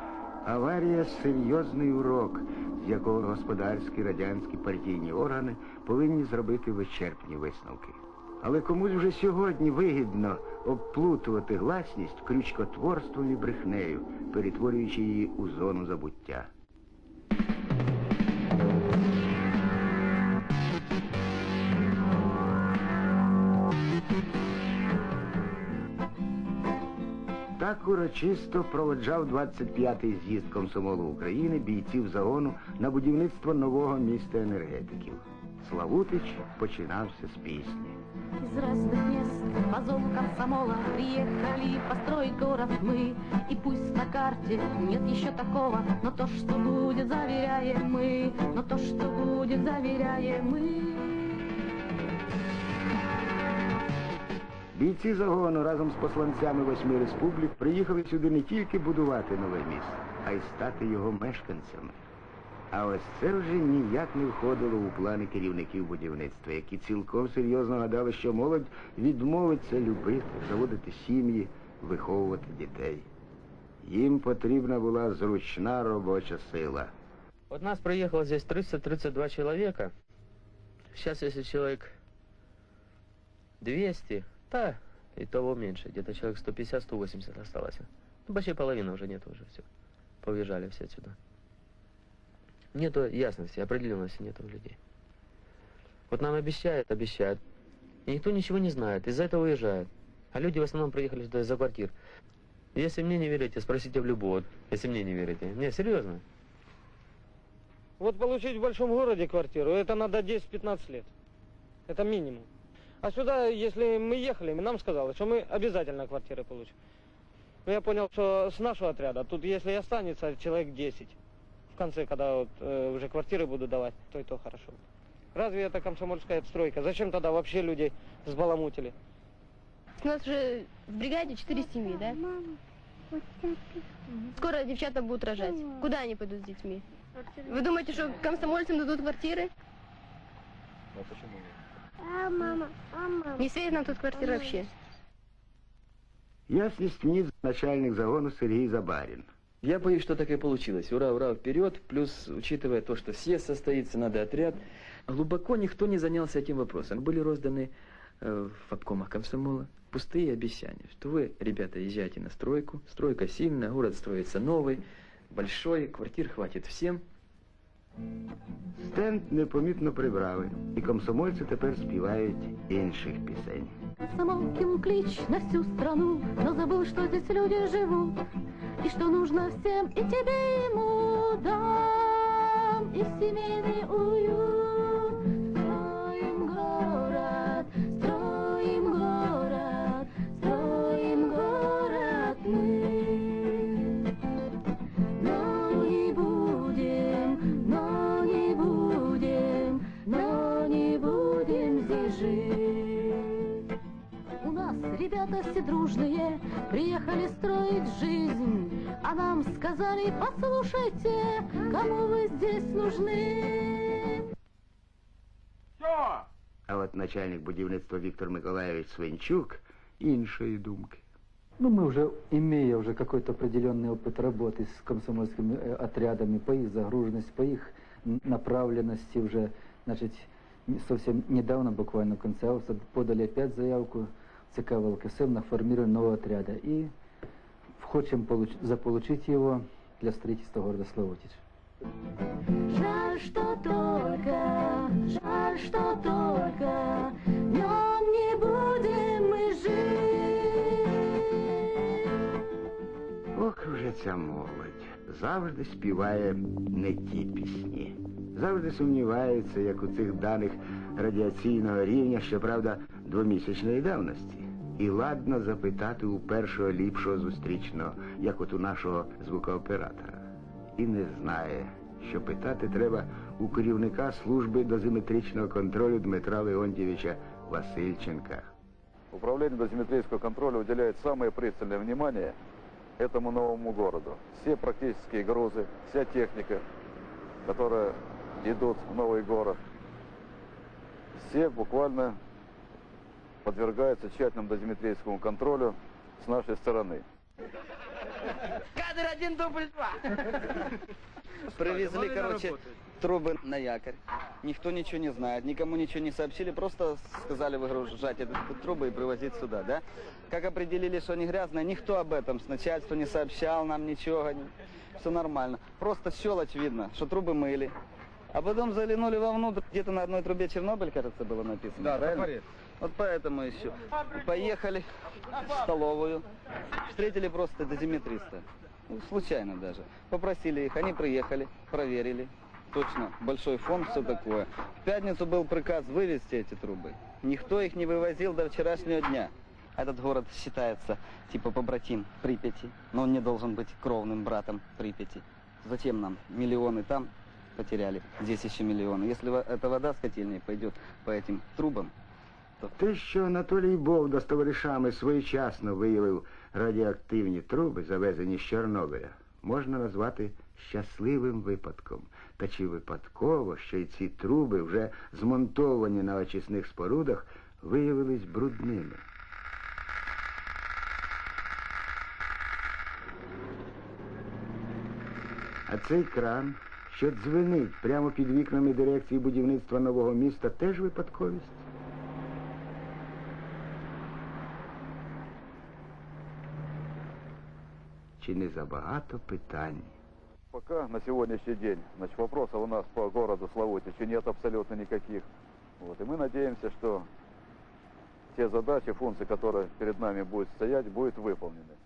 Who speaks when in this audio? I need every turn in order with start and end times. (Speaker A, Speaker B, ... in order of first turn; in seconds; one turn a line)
Speaker A: 0.5-16.5
Speaker A: 27.6-38.0
Speaker B: 38.4-51.5
Speaker A: 54.7-62.0
Speaker A: 62.7-73.1
Speaker A: 73.8-76.9
Speaker C: 77.5-79.9
Speaker C: 80.9-82.0
Speaker C: 83.6-89.7
Speaker C: 90.2-91.2
Speaker C: 92.7-94.8
Speaker C: 96.1-97.4
Speaker C: 98.1-101.9
Speaker C: 102.8-106.2
Speaker D: 108.0-111.1
Speaker D: 111.9-112.5
Speaker D: 113.0-116.7
Speaker D: 117.7-121.2
Speaker D: 121.7-124.8
Speaker D: 125.3-128.9
Speaker E: 130.0-132.2
Speaker E: 134.4-136.8
Speaker E: 137.4-139.5
Speaker E: 143.3-144.7
Speaker A: 146.5-149.3
Speaker F: 149.6-167.0
Speaker A: 168.8-173.7
Speaker B: 174.1-178.2
Speaker B: 178.8-194.1
Speaker B: 195.2-203.7
Speaker B: 204.4-214.2
Speaker A: 216.7-221.0
Speaker G: 221.6-236.9
Speaker G: 237.8-241.4
Speaker B: 242.7-251.8
Speaker A: 253.3-278.5
Speaker H: 279.1-282.4
Speaker H: 283.0-286.6
Speaker H: 287.4-289.6
Speaker H: 291.2-292.2
Speaker H: 293.4-297.1
Speaker I: 298.8-300.7
Speaker I: 301.5-317.7
Speaker I: 318.3-324.9
Speaker H: 321.9-322.3
Speaker I: 325.4-326.3
Speaker I: 326.9-351.9
Speaker A: 352.8-369.0
Speaker A: 375.7-381.6
Speaker A: 388.2-389.9
Speaker H: 390.5-395.3
Speaker H: 395.8-397.1
Speaker H: 398.3-401.8